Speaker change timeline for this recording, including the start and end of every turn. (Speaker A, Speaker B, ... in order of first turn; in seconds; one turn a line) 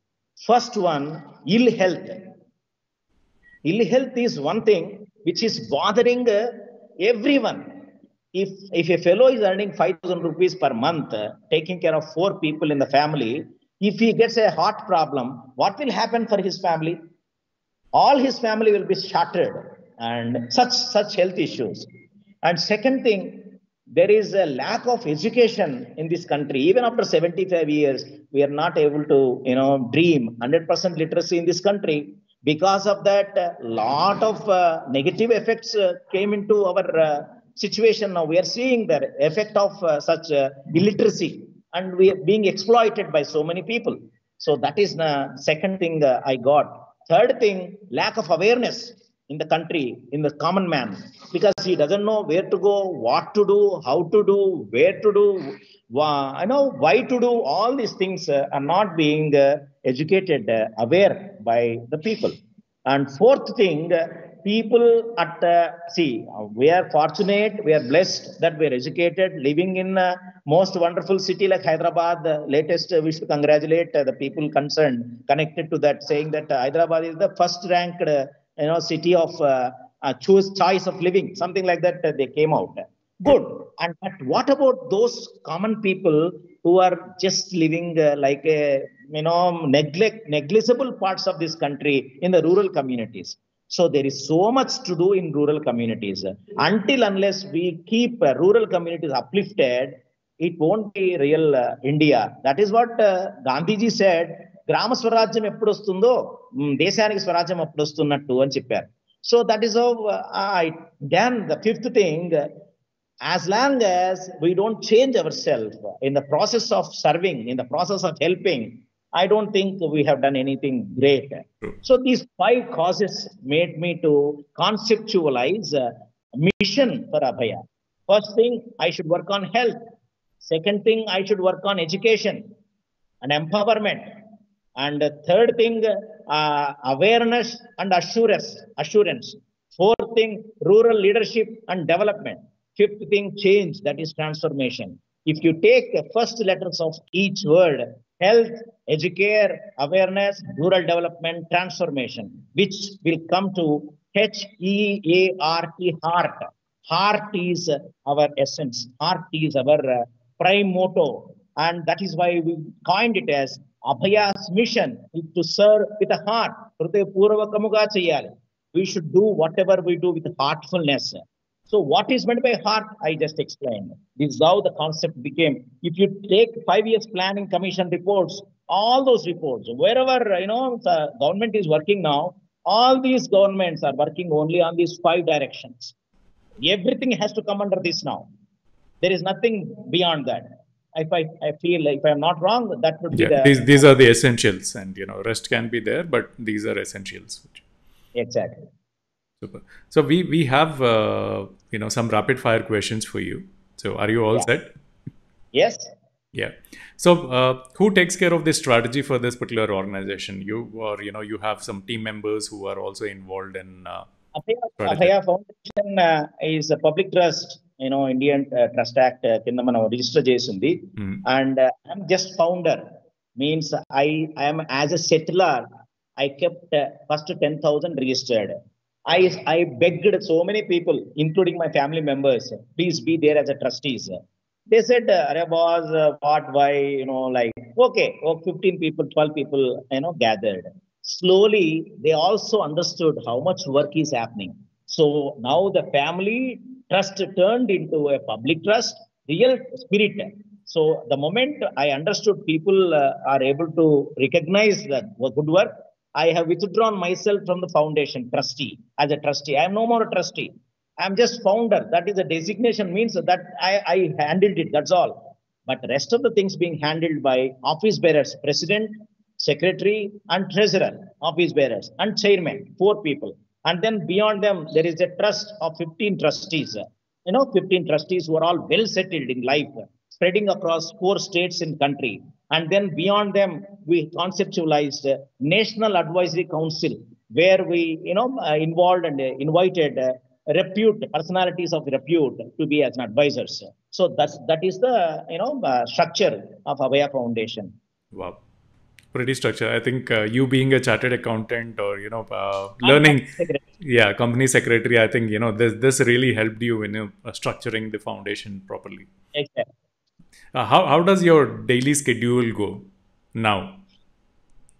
Speaker A: 0.4-2.3
Speaker A: 3.6-7.8
Speaker A: 8.3-17.0
Speaker A: 17.9-21.9
Speaker A: 22.4-112.5
Speaker A: 113.2-129.8
Speaker A: 130.4-132.4
Speaker A: 133.2-134.1
Speaker A: 134.8-185.9
Speaker A: 186.6-188.3
Speaker A: 189.0-193.8
Speaker B: 193.1-197.6
Speaker A: 198.1-198.7
Speaker B: 199.4-204.7
Speaker A: 205.5-205.9
Speaker B: 206.3-214.1
Speaker A: 214.3-222.8
Speaker B: 214.8-215.1
Speaker A: 223.4-297.7
Speaker B: 298.1-298.4
Speaker B: 299.1-309.1
Speaker A: 302.8-303.6
Speaker A: 309.3-309.7
Speaker B: 310.5-313.8